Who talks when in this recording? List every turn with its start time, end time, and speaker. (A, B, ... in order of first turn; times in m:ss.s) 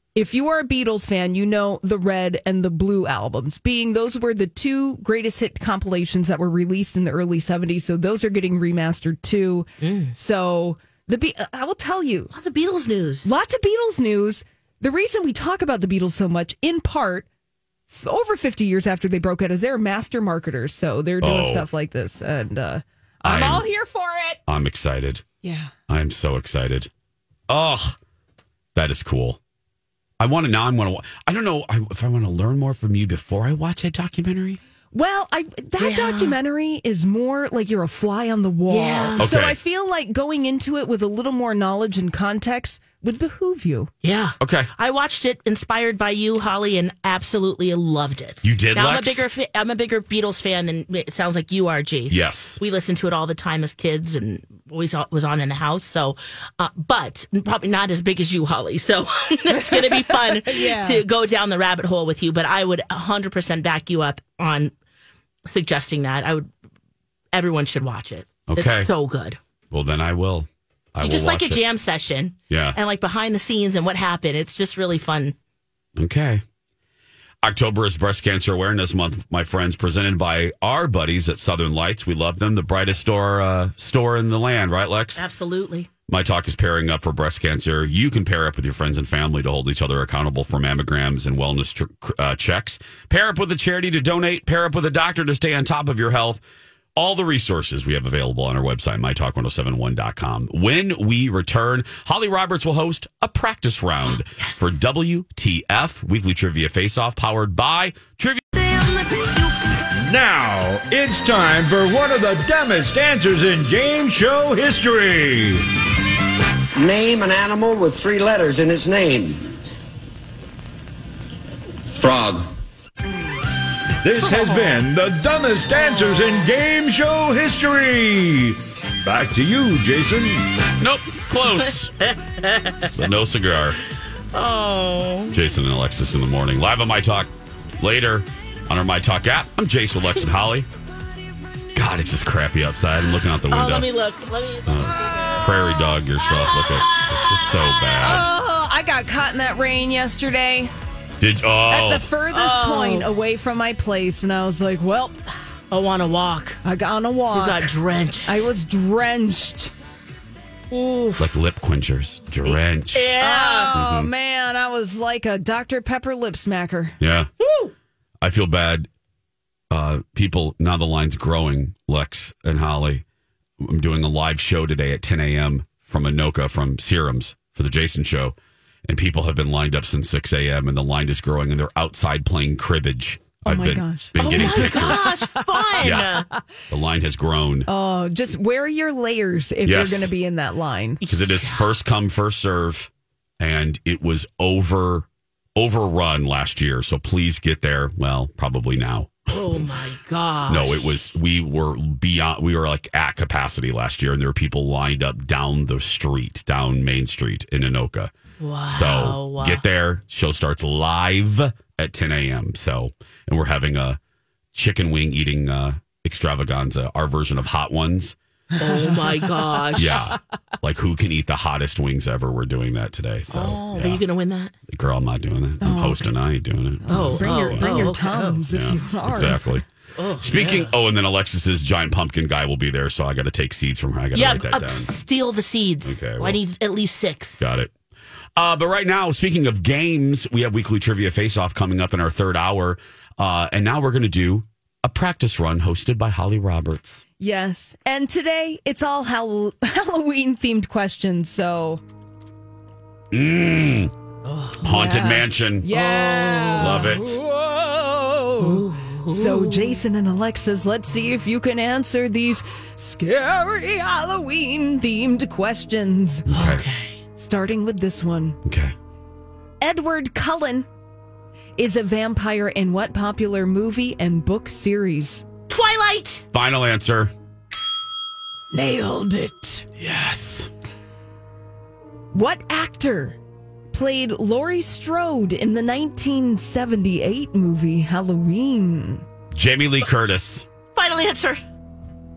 0:00.1-0:12.3 A
0:09.8-0:10.1 B
0:12.3-0:13.3 B
0:13.2-0:17.3 A
0:17.9-0:24.4 A
0:21.2-0:21.7 C
0:23.2-0:23.7 C
0:24.5-0:25.2 C
0:25.4-0:25.7 A
0:25.9-0:26.9 C
0:27.5-0:28.0 C
0:28.7-0:29.4 C
0:30.2-0:34.6 C
0:34.9-0:43.9 A
0:35.8-0:36.4 B
0:38.7-0:39.3 B
0:39.2-0:39.6 C
0:44.0-1:04.7 B
0:44.4-0:44.7 C
0:48.4-0:49.3 C
0:52.1-0:52.6 C
0:59.5-1:01.0 A
1:05.4-1:06.5 B
1:07.3-1:09.4 B
1:08.5-1:08.9 C
1:09.7-1:11.6 C
1:11.0-1:15.3 B
1:12.5-1:12.8 C
1:16.0-1:16.4 C
1:17.4-1:25.2 C
1:25.2-1:25.9 B
1:26.1-1:36.4 C
1:37.0-1:48.5 C
1:44.1-1:44.7 B
1:50.0-1:55.7 D
1:56.8-1:59.5 E
2:01.9-2:02.5 E
2:04.0-2:10.6 D
2:04.2-2:04.8 B
2:10.8-2:12.0 C
2:12.0-2:12.9 B
2:12.9-2:13.8 C
2:14.3-2:15.4 B
2:15.3-2:20.7 C
2:21.7-2:23.9 C
2:23.5-2:28.3 B
2:24.6-2:28.3 C
2:28.0-2:30.7 A
2:31.2-2:32.1 C
2:31.7-2:35.2 A
2:32.3-2:33.1 B
2:35.7-2:36.6 B
2:36.6-2:37.7 A
2:37.3-2:38.4 B
2:38.2-2:39.7 A
2:40.7-2:41.3 B
2:41.2-2:43.1 C
2:42.9-2:43.8 B
2:43.1-2:47.0 A
2:43.7-2:44.1 C
2:47.0-2:47.3 C
2:47.4-2:47.7 B
2:48.2-2:48.9 C
2:49.7-2:53.0 C
2:53.6-3:05.2 C
3:03.4-3:06.4 A
3:04.2-3:06.3 B
3:05.8-3:07.7 C
3:07.7-3:11.0 A
3:09.6-3:10.1 C
3:11.0-3:11.7 B
3:11.1-3:19.6 C
3:19.3-3:21.0 B
3:20.5-3:28.1 C
3:28.4-3:29.6 B
3:28.7-3:34.0 C
3:34.5-3:38.2 C
3:38.6-3:39.0 A
3:38.6-3:40.0 B
3:39.8-3:44.0 C
3:43.3-3:44.5 B
3:44.7-3:47.9 C
3:45.6-3:46.1 A
3:46.8-3:49.6 A
3:46.9-3:48.4 B
3:48.5-3:49.6 C
3:50.0-3:50.7 B
3:50.2-3:54.9 C
3:54.1-3:57.4 B
3:55.8-3:56.4 C
3:57.4-3:57.7 C
3:58.4-4:07.0 C
4:07.2-4:11.8 A
4:13.1-4:13.9 C
4:14.2-4:14.6 B
4:14.6-4:15.7 C
4:14.6-4:26.3 A
4:15.7-4:17.1 B
4:16.6-4:17.2 C
4:18.4-4:19.8 B
4:26.3-4:26.6 C
4:26.3-4:27.0 B
4:27.2-4:28.4 A
4:28.4-4:28.7 C
4:29.6-4:30.7 A
4:31.6-4:35.2 A
4:35.5-4:36.2 B
4:36.3-4:37.1 C
4:38.5-4:39.7 A
4:39.8-4:40.5 C
4:42.1-4:43.2 A
4:43.7-4:49.0 A
4:49.3-4:50.5 C
4:50.7-4:51.4 B